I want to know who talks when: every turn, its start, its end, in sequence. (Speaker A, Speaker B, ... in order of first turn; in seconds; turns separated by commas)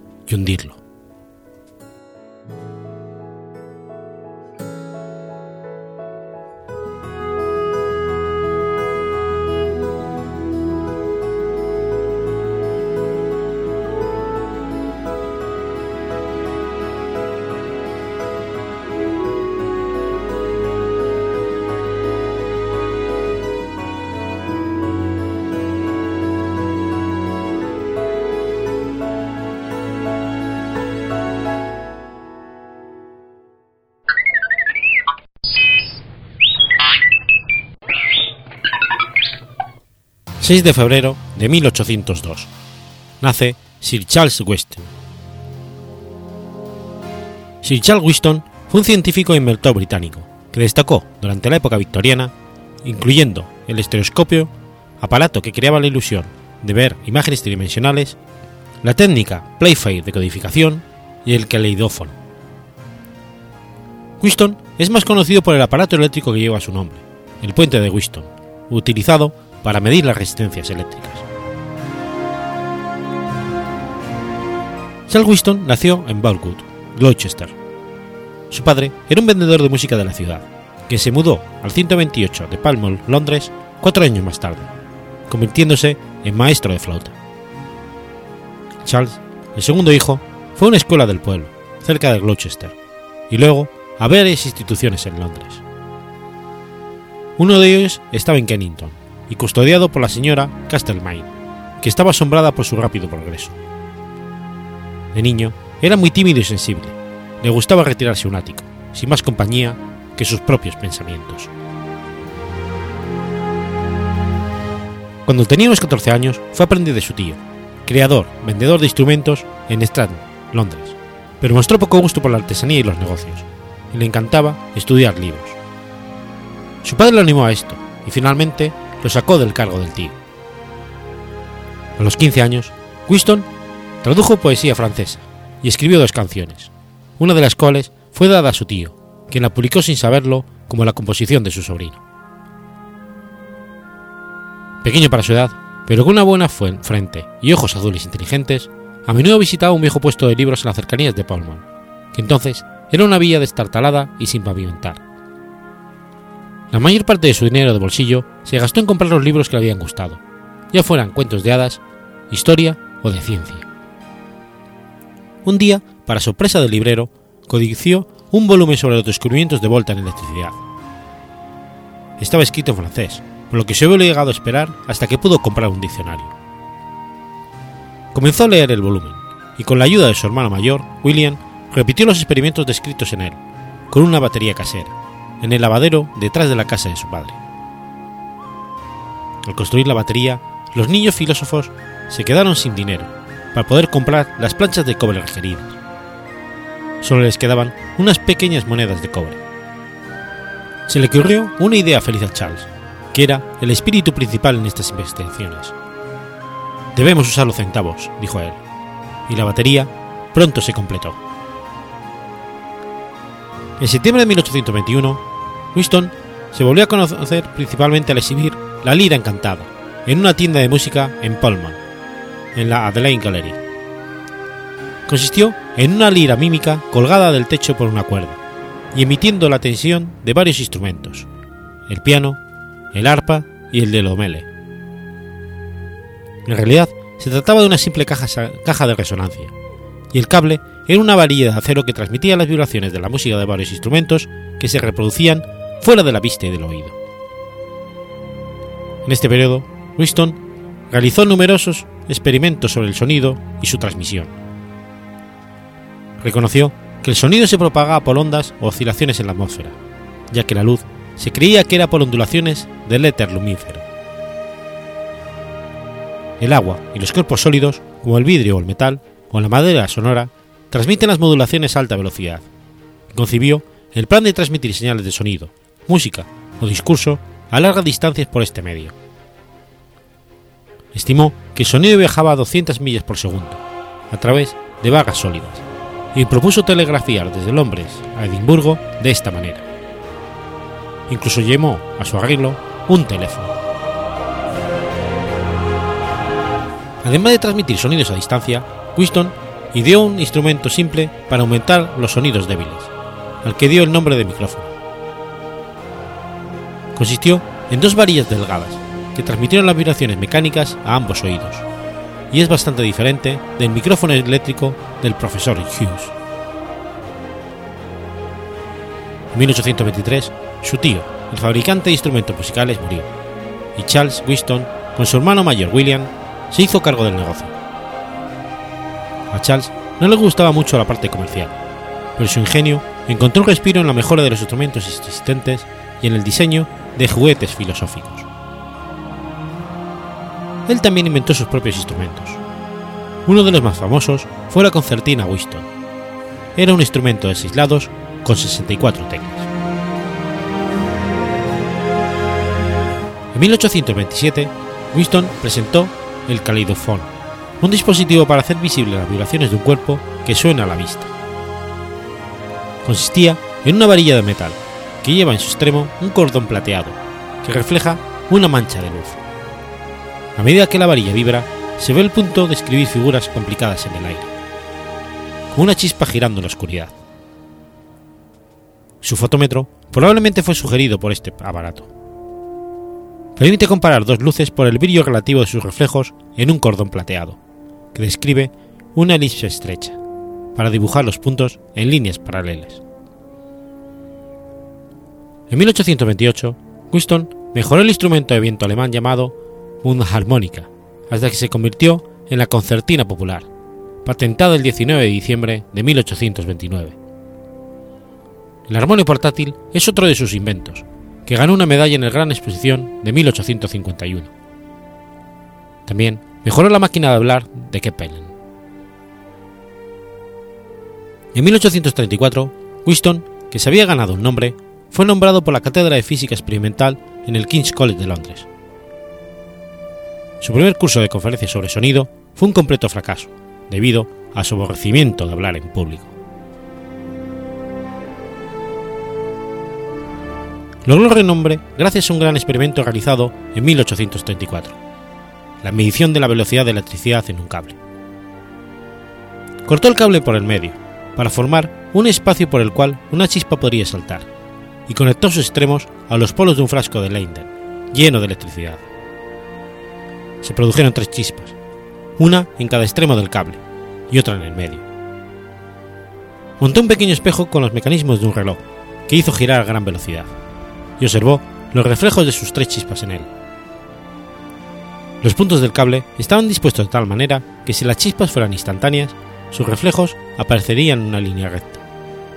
Speaker A: 0.3-0.8, Speaker A: 40.4-42.5, Speaker A: 43.2-44.9, Speaker A: 47.6-52.3, Speaker A: 52.8-58.2, Speaker A: 58.8-62.2, Speaker A: 64.2-71.2, Speaker A: 75.1-77.5, Speaker A: 78.5-84.7, Speaker A: 85.3-87.2, Speaker A: 88.8-92.8, Speaker A: 93.3-95.6, Speaker A: 97.4-103.6, Speaker A: 105.1-111.5, Speaker A: 115.3-125.6, Speaker A: 126.8-130.2, Speaker A: 132.0-133.5, Speaker A: 134.0-142.0, Speaker A: 144.8-155.0, Speaker A: 156.7-160.2, Speaker A: 160.7-163.7, Speaker A: 165.4-170.6, Speaker A: 172.2-176.3, Speaker A: 178.1-187.4, Speaker A: 189.4-195.8, Speaker A: 197.0-199.4, Speaker A: 200.9-205.7, Speaker A: 206.9-208.6, Speaker A: 209.3-211.2, Speaker A: 213.8-215.2, Speaker A: 215.7-221.8, Speaker A: 222.6-223.6, Speaker A: 225.1-228.4, Speaker A: 228.9-231.3, Speaker A: 231.9-232.4, Speaker A: 232.9-234.5, Speaker A: 236.5-239.5, Speaker A: 240.1-247.0, Speaker A: 249.1-250.4, Speaker A: 250.9-254.3, Speaker A: 256.2-259.8, Speaker A: 260.3-263.9, Speaker A: 266.4-272.5, Speaker A: 273.1-278.9, Speaker A: 280.9-285.6, Speaker A: 286.1-289.6, Speaker A: 291.1-293.5, Speaker A: 297.0-302.9, Speaker A: 303.4-304.7, Speaker A: 306.9-311.6, Speaker A: 312.3-316.1, Speaker A: 319.3-323.1, Speaker A: 323.8-327.6, Speaker A: 329.3-331.6, Speaker A: 332.2-338.3, Speaker A: 340.7-342.4, Speaker A: 343.3-345.7, Speaker A: 346.6-349.5, Speaker A: 353.3-361.1, Speaker A: 362.8-369.2, Speaker A: 370.4-374.3, Speaker A: 375.5-377.0, Speaker A: 379.0-381.9, Speaker A: 383.4-387.4, Speaker A: 387.9-390.0, Speaker A: 390.6-392.8, Speaker A: 395.5-403.5, Speaker A: 404.0-407.0, Speaker A: 408.7-414.3, Speaker A: 415.9-418.3, Speaker A: 421.3-428.5, Speaker A: 430.4-436.1, Speaker A: 440.9-444.8, Speaker A: 445.6-447.8, Speaker A: 449.6-454.3, Speaker A: 454.9-458.9, Speaker A: 460.4-461.6, Speaker A: 462.2-464.8, Speaker A: 466.6-470.3, Speaker A: 471.0-473.3, Speaker A: 475.2-481.8